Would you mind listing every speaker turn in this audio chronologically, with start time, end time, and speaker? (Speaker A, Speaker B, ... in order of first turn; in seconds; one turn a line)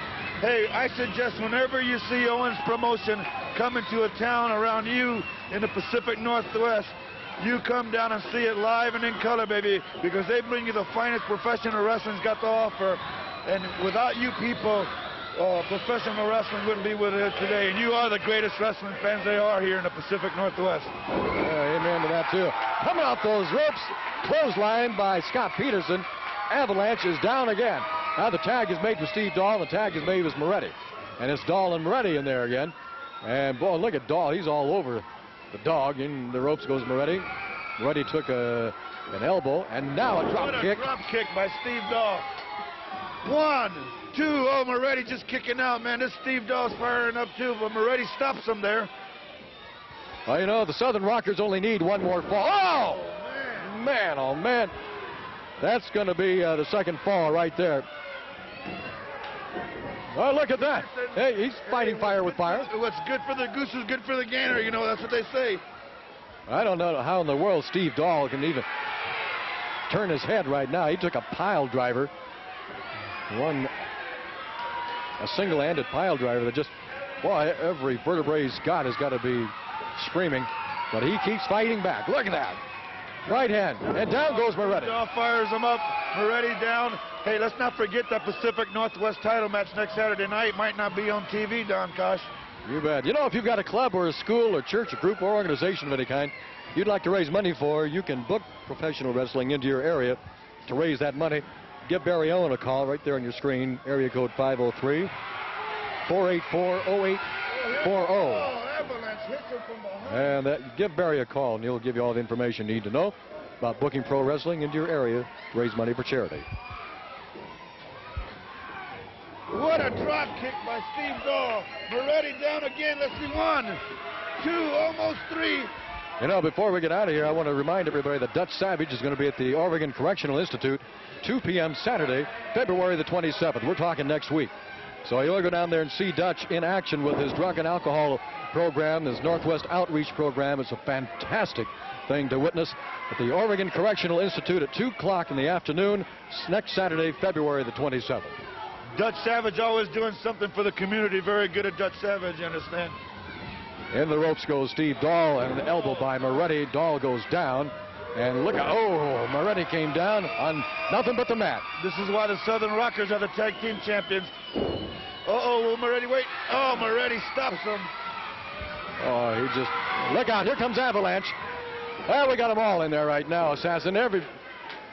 Speaker A: 0.4-20.9
Speaker B: 21.3-37.3
Speaker B: 37.8-40.9
Speaker A: 40.2-42.3
Speaker A: 43.2-48.9
Speaker B: 50.3-54.7
Speaker A: 52.8-53.7
Speaker B: 55.6-57.9
Speaker B: 60.1-62.7
Speaker A: 60.5-65.6
Speaker B: 66.5-68.7
Speaker B: 69.9-72.1
Speaker B: 73.3-73.7
Speaker B: 75.2-82.6
Speaker B: 83.3-85.0
Speaker A: 83.8-92.3
Speaker B: 92.7-105.1
Speaker B: 106.1-108.5
Speaker A: 107.6-110.4
Speaker B: 110.1-116.5
Speaker A: 119.5-123.8
Speaker A: 124.4-125.7
Speaker B: 126.2-134.5
Speaker B: 135.0-148.4
Speaker A: 148.9-153.0
Speaker B: 153.9-161.7
Speaker A: 161.8-164.3
Speaker A: 165.2-167.9
Speaker B: 169.0-171.3
Speaker B: 172.1-174.3